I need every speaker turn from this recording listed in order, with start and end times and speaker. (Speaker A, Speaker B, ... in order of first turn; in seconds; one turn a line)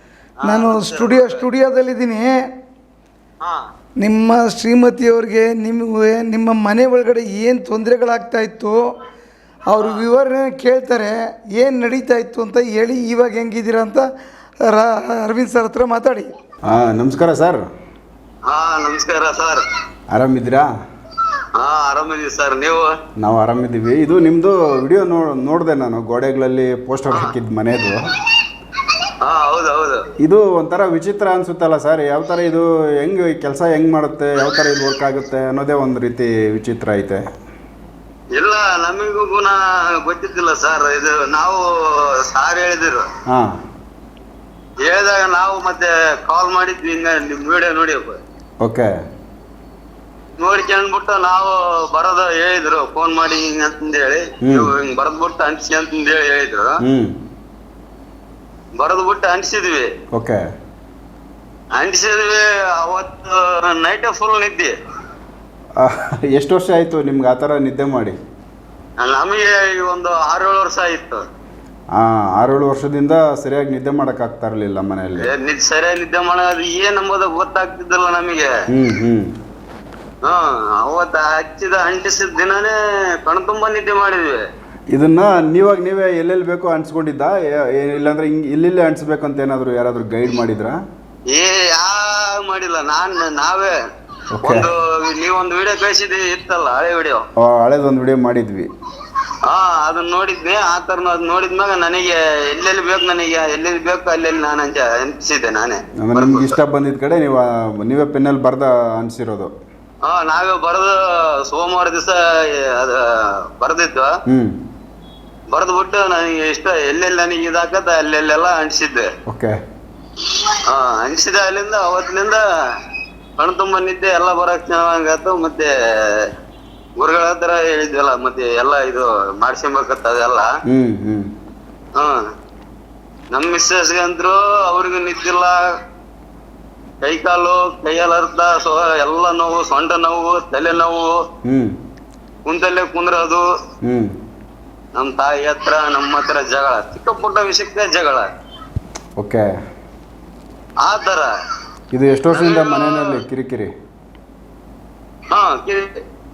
Speaker A: 0.4-1.4
Speaker B: 0.4-2.5
Speaker A: 3.4-3.7
Speaker B: 4.0-8.9
Speaker B: 9.7-14.1
Speaker A: 9.7-10.0
Speaker B: 14.6-16.3
Speaker C: 16.6-17.6
Speaker A: 18.4-19.6
Speaker C: 20.1-20.7
Speaker A: 21.5-23.0
Speaker C: 23.2-28.1
Speaker A: 28.8-30.1
Speaker C: 30.2-37.2
Speaker A: 38.3-43.1
Speaker C: 43.2-43.6
Speaker A: 44.8-48.2
Speaker C: 48.6-48.9
Speaker A: 50.4-56.8
Speaker C: 54.4-54.7
Speaker C: 56.8-57.2
Speaker A: 58.8-59.9
Speaker C: 60.1-60.4
Speaker A: 61.7-64.8
Speaker C: 65.8-68.2
Speaker A: 69.0-71.2
Speaker C: 71.9-75.3
Speaker A: 75.2-78.5
Speaker C: 78.7-79.3
Speaker A: 80.2-84.5
Speaker C: 84.9-90.8
Speaker A: 91.3-93.8
Speaker C: 94.3-94.7
Speaker A: 94.4-97.2
Speaker C: 97.4-98.7
Speaker A: 99.3-106.6
Speaker C: 106.0-109.5
Speaker A: 110.0-114.2
Speaker C: 114.3-114.6
Speaker A: 115.5-119.1
Speaker C: 119.3-119.6
Speaker A: 120.2-122.8
Speaker A: 123.4-126.3
Speaker A: 127.0-130.5
Speaker C: 130.7-131.3
Speaker A: 131.9-132.3
Speaker A: 133.3-135.8
Speaker A: 137.0-141.2
Speaker C: 141.4-141.8
Speaker A: 142.4-143.4
Speaker C: 143.8-144.2
Speaker A: 144.9-148.3
Speaker C: 149.2-149.5
Speaker A: 150.8-151.3
Speaker C: 151.9-153.7
Speaker A: 152.3-153.2
Speaker A: 155.3-156.0